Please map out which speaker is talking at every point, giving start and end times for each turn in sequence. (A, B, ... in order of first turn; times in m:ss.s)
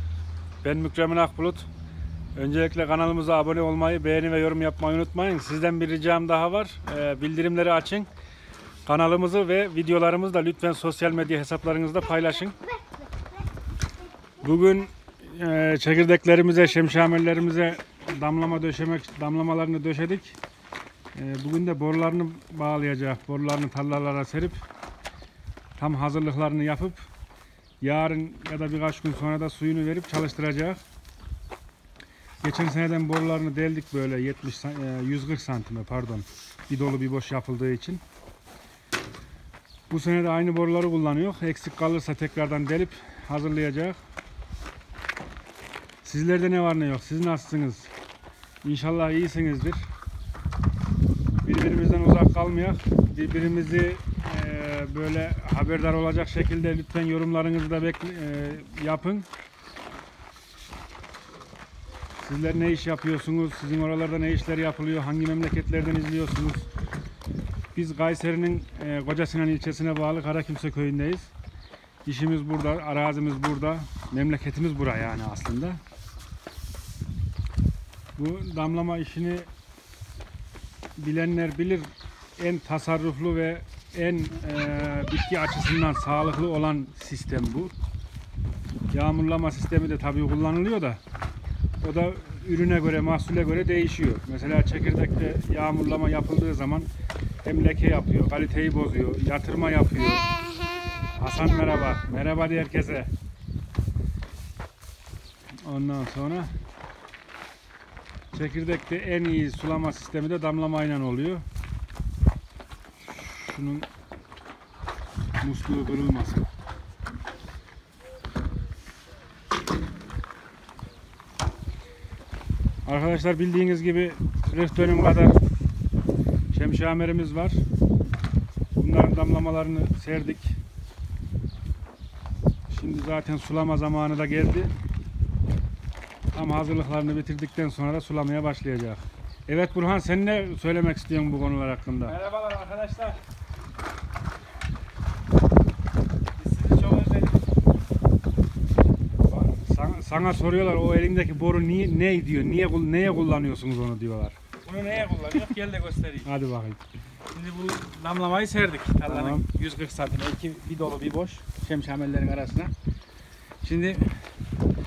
0:00.6-0:01.7 A
0:02.4-0:08.1 A
0:08.9-0:12.6 A
0:14.4-0:20.4 A
0:21.1-0:24.6 A
0:25.8-0:27.0 A
0:27.8-0:30.8 A
0:32.4-0:38.0 A
0:39.9-0:44.0 A
0:46.0-0:47.9 A
0:48.6-0:49.9 A
0:51.4-0:59.3 A
1:02.2-1:06.7 A
1:07.7-1:11.3 A
1:12.0-1:15.8 A
1:18.2-1:19.5 A
1:21.0-1:27.7 A
1:28.9-1:31.0 A
1:31.8-1:36.9 A
1:37.4-1:40.3 A
1:41.0-1:43.1 A
1:45.6-1:46.5 A
1:48.3-1:51.4 A
1:53.1-1:53.9 A
1:55.4-1:56.5 A
2:02.9-2:05.4 A
2:06.5-2:07.6 A
2:08.8-2:10.6 A
2:12.7-2:14.7 A
2:16.3-2:22.2 A
2:22.0-2:23.2 B
2:26.4-2:27.5 B
2:29.3-2:34.4 A
2:34.6-2:36.3 B
2:36.2-2:36.8 A
2:37.3-2:42.7 B
2:39.1-2:39.5 A
2:43.6-2:44.2 B